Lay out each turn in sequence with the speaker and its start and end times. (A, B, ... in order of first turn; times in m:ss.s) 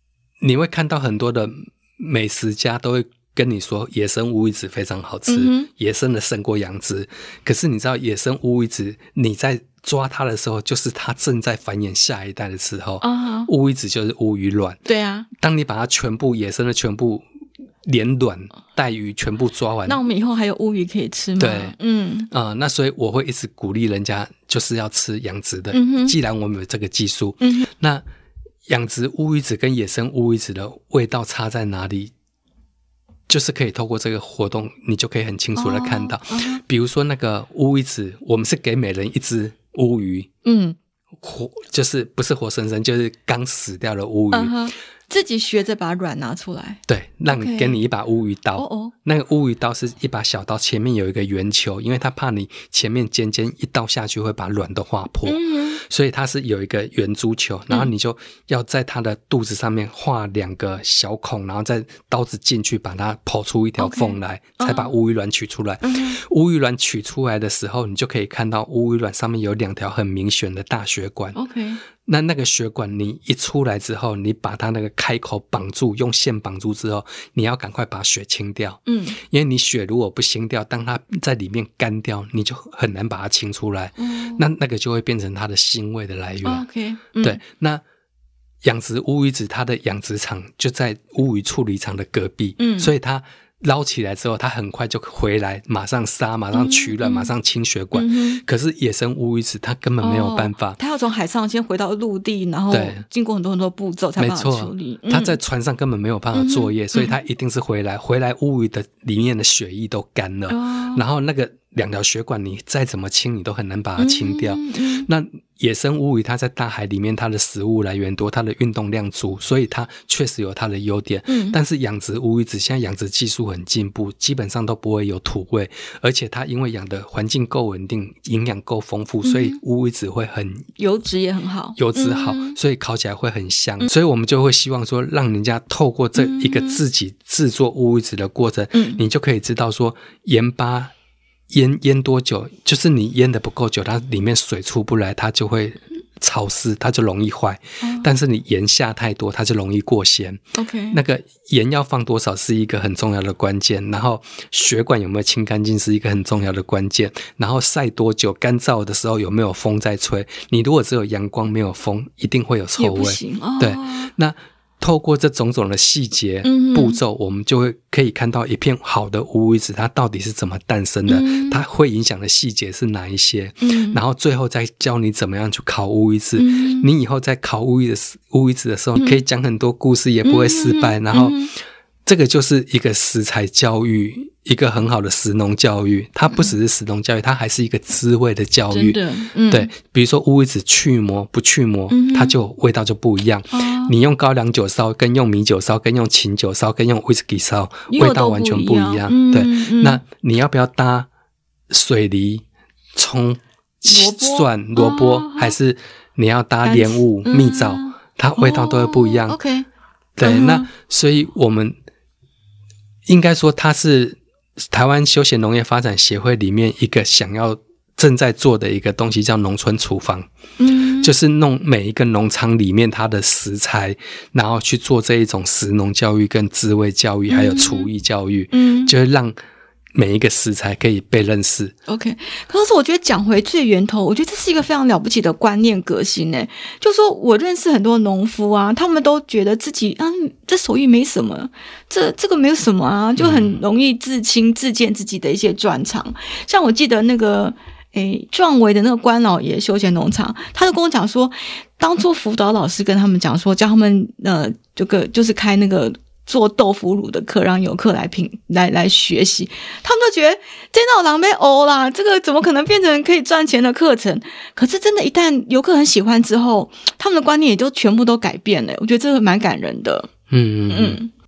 0:00.4-0:14.8 A
0:05.3-0:05.7 B
0:13.0-0:13.5 B
0:14.8-0:15.3 B
0:15.4-0:17.2 A
0:17.8-0:20.0 A
0:19.8-0:22.3 B
0:21.4-0:21.8 A
0:22.3-0:28.0 A
0:25.7-0:26.1 B
0:27.4-0:27.7 B
0:28.7-0:32.1 A
0:33.3-0:40.3 A
0:35.6-0:36.6 B
0:40.4-0:40.8 B
0:41.2-0:44.5 A
0:44.3-0:47.8 B
0:46.9-1:11.4 A
0:48.6-0:48.9 B
0:55.2-0:55.8 B
1:03.8-1:04.9 B
1:05.8-1:06.2 B
1:11.3-1:11.8 B
1:12.0-1:26.6 A
1:18.9-1:19.2 B
1:24.0-1:24.4 B
1:26.4-1:27.4 B
1:27.2-1:27.8 A
1:28.6-1:40.8 A
1:32.6-1:32.9 B
1:36.5-1:37.3 B
1:37.9-1:38.4 B
1:40.0-1:45.4 B
1:42.7-1:43.0 A
1:44.2-2:10.7 A
1:46.3-1:47.1 B
1:50.5-1:51.0 B
1:54.0-1:55.1 B
2:01.3-2:01.6 B
2:09.2-2:09.6 B
2:10.8-2:12.6 B
2:11.8-2:20.9 A
2:16.2-2:16.8 B
2:18.7-2:19.0 B
2:21.5-3:01.5 A
2:27.8-2:28.1 B
2:30.5-2:31.0 B
2:42.8-2:44.1 B
2:46.4-2:47.0 B
2:51.1-2:51.6 B
2:53.6-2:54.0 B
2:56.4-2:56.9 B
3:00.2-3:01.5 B
3:02.0-3:21.1 A
3:08.7-3:09.7 B
3:11.9-3:12.4 B
3:13.5-3:13.9 B
3:17.9-3:20.0 B
3:21.7-3:22.4 A
3:22.9-3:29.4 A
3:23.9-3:25.5 B
3:26.6-3:29.6 B
3:30.2-3:31.8 A
3:30.2-3:30.7 B
3:33.0-3:40.3 A
3:40.6-3:41.1 B
3:41.0-3:49.4 A
3:47.3-3:47.9 B
3:48.5-3:48.9 B
3:49.9-3:51.7 A
3:51.9-4:30.1 B
4:03.2-4:03.6 A
4:30.3-4:31.0 A
4:30.7-4:31.1 B